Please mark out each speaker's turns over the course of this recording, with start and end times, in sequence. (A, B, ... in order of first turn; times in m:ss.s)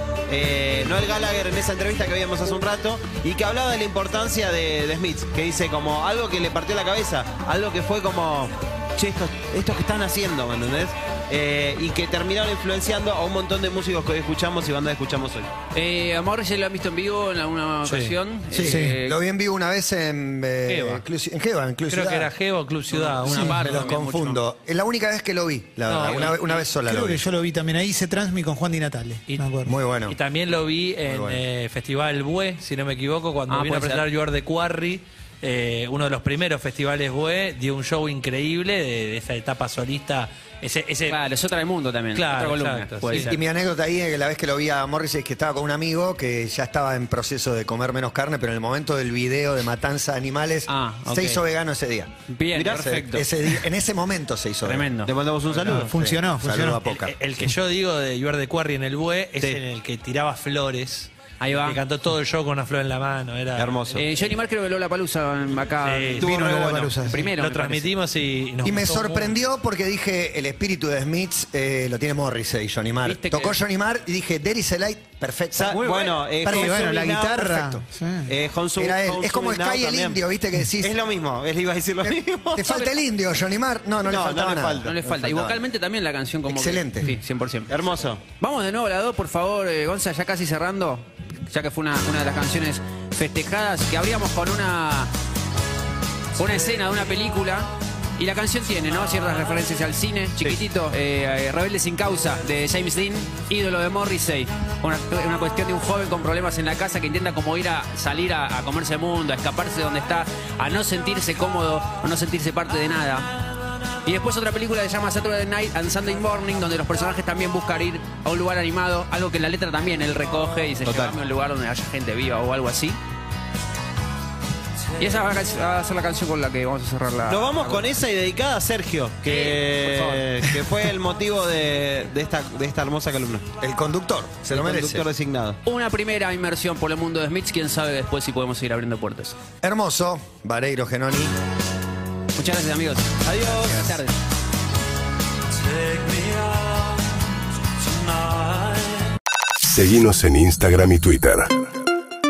0:00.3-0:15.5 A
0:15.7-0:19.2 B
0:18.5-0:22.3 C
0:18.6-0:18.9 D
0:20.7-0:21.0 B
0:21.9-0:23.5 E
0:22.9-0:24.4 B
0:23.3-0:27.2 C
0:25.9-0:26.3 E
0:26.0-0:26.6 B
0:26.8-0:29.7 D
0:29.6-0:30.2 C
0:30.1-0:41.2 E
0:31.0-0:31.4 C
0:33.5-0:34.0 B
0:41.1-0:43.3 B
0:42.1-0:43.4 E
0:43.2-0:52.1 C
0:50.7-0:51.4 B
0:52.3-0:53.3 B
0:52.5-0:52.9 A
0:52.6-0:54.9 C
0:54.6-0:55.1 B
0:55.0-0:55.9 A
0:55.6-0:56.8 D
0:56.0-0:57.1 C
0:56.8-1:04.0 E
1:01.4-1:01.8 B
1:03.6-1:04.1 A
1:03.9-1:06.4 B
1:05.8-1:09.4 E
1:06.2-1:07.2 D
1:06.4-1:06.8 C
1:07.0-1:07.9 B
1:08.6-1:16.1 C
1:13.0-1:13.6 B
1:15.5-1:20.2 A
1:15.7-1:16.2 B
1:16.4-1:18.3 D
1:18.8-1:20.9 C
1:20.8-1:22.9 A
1:22.5-1:25.6 C
1:24.0-1:24.9 A
1:24.8-1:27.7 B
1:26.5-1:27.1 C
1:27.7-1:28.2 A
1:28.4-1:35.1 B
1:36.4-1:53.3 B
1:54.0-2:03.0 B
2:00.8-2:01.1 A
2:05.0-2:07.8 B
2:07.3-2:13.5 A
2:09.2-2:10.5 B
2:13.6-2:15.0 C
2:14.5-2:15.6 A
2:15.6-2:19.4 B
2:19.6-2:21.3 C
2:22.4-2:24.2 B
2:23.2-2:23.9 A
2:25.5-2:27.0 F
2:27.8-2:29.0 F
2:29.6-2:31.6 G